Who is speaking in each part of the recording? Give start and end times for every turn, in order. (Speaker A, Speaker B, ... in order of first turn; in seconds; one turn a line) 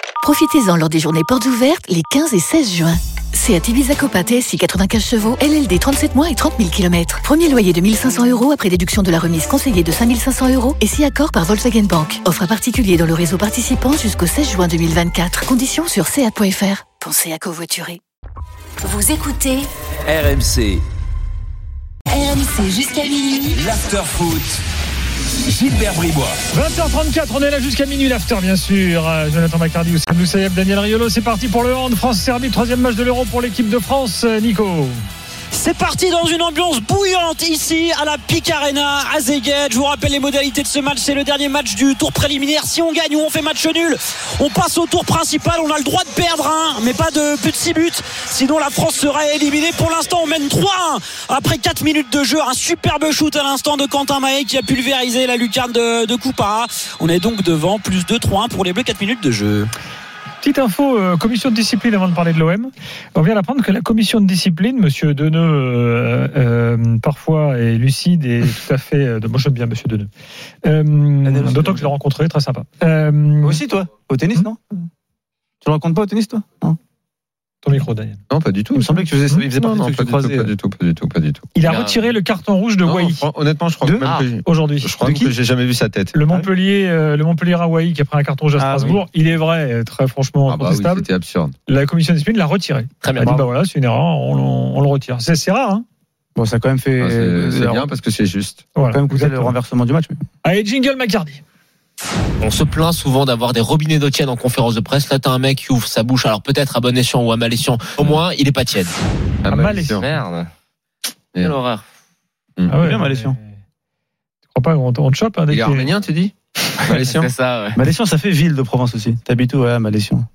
Speaker A: 0.2-18.0
Speaker B: 18.8-19.7
Speaker C: 20.1-20.8
Speaker B: 22.1-23.6
Speaker C: 23.6-24.6
Speaker C: 25.5-26.4
Speaker D: 26.5-35.0
Speaker E: 35.5-59.7
Speaker D: 60.4-70.1
Speaker D: 70.6-73.6
Speaker F: 71.2-71.9
Speaker F: 73.4-74.9
Speaker F: 75.6-76.8
Speaker D: 77.6-78.2
Speaker G: 78.3-81.5
Speaker F: 78.8-80.5
Speaker D: 81.5-83.2
Speaker H: 81.6-82.1
Speaker G: 82.8-86.1
Speaker D: 84.5-85.3
Speaker D: 86.1-91.1
Speaker F: 88.6-89.0
Speaker G: 90.5-91.5
Speaker D: 91.7-95.8
Speaker H: 93.0-93.4
Speaker F: 96.4-97.9
Speaker G: 97.0-98.7
Speaker D: 98.8-99.5
Speaker F: 98.9-100.2
Speaker D: 100.4-101.4
Speaker H: 102.4-108.9
Speaker G: 109.4-110.0
Speaker D: 109.5-110.0
Speaker H: 109.9-110.5
Speaker H: 111.4-111.8
Speaker D: 112.7-113.4
Speaker F: 112.8-113.4
Speaker D: 114.5-115.9
Speaker G: 115.5-117.3
Speaker H: 116.8-117.8
Speaker F: 117.8-120.3